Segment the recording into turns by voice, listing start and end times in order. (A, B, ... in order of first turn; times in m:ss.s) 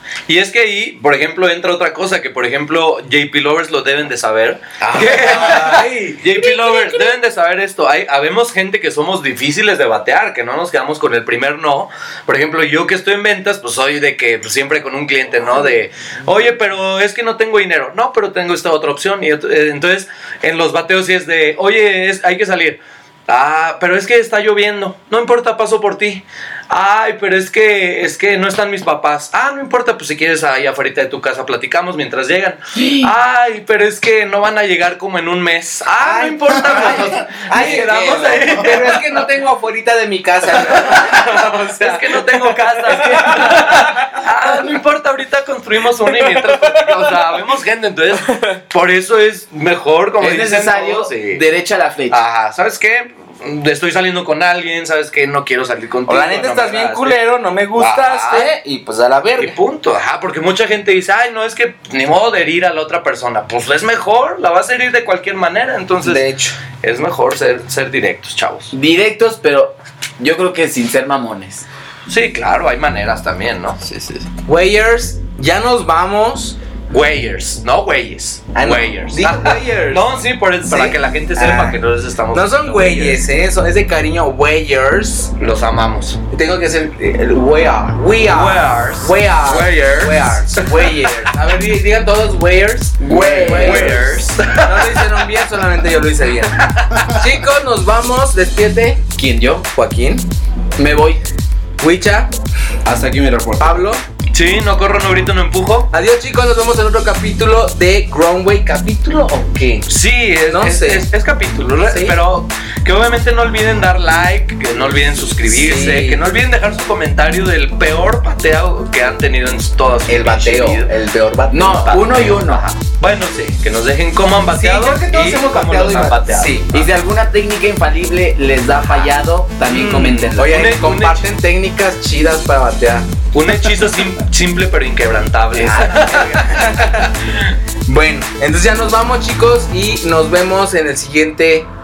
0:00.2-0:39.2 A
0:04.8-0:06.2 B
0:36.0-0:43.9 B
0:36.7-0:37.0 C
0:37.6-0:38.7 C
0:41.8-0:51.4 A
0:46.2-0:47.1 B
0:48.3-0:48.5 B
0:50.2-0:52.2 D
0:52.1-0:57.2 A
0:56.0-0:59.6 B
0:57.8-0:58.5 A
0:59.4-1:08.7 A
1:06.0-1:06.6 B
1:08.7-1:11.6 D
1:12.1-1:14.2 A
1:14.4-1:16.6 B
1:16.9-1:23.2 A
1:18.5-1:20.0 B
1:20.7-1:21.8 B
1:22.3-1:25.3 B
1:25.4-1:26.2 A
1:26.3-1:39.0 B
1:28.2-1:30.9 A
1:33.0-1:34.1 D
1:33.1-1:33.7 C
1:33.5-1:35.2 A
1:36.5-1:37.1 A
1:39.2-1:39.7 D
1:39.7-1:40.3 B
1:40.8-1:41.2 D
1:41.8-1:42.3 B
1:42.8-1:43.9 C
1:43.6-1:44.0 B
1:44.3-1:45.9 A
1:45.9-1:49.8 B
1:49.8-2:00.9 A
1:50.5-1:51.1 B
1:51.8-1:52.2 B
1:55.4-1:56.2 B
2:00.1-2:02.7 B
2:01.5-2:02.8 D
2:03.0-2:06.9 A
2:04.5-2:06.7 B
2:06.3-2:10.6 D
2:08.8-2:09.1 B
2:09.7-2:11.3 A
2:09.7-2:13.1 B
2:13.3-2:17.6 A
2:15.5-2:16.6 D
2:15.6-2:17.0 B
2:17.8-2:21.7 B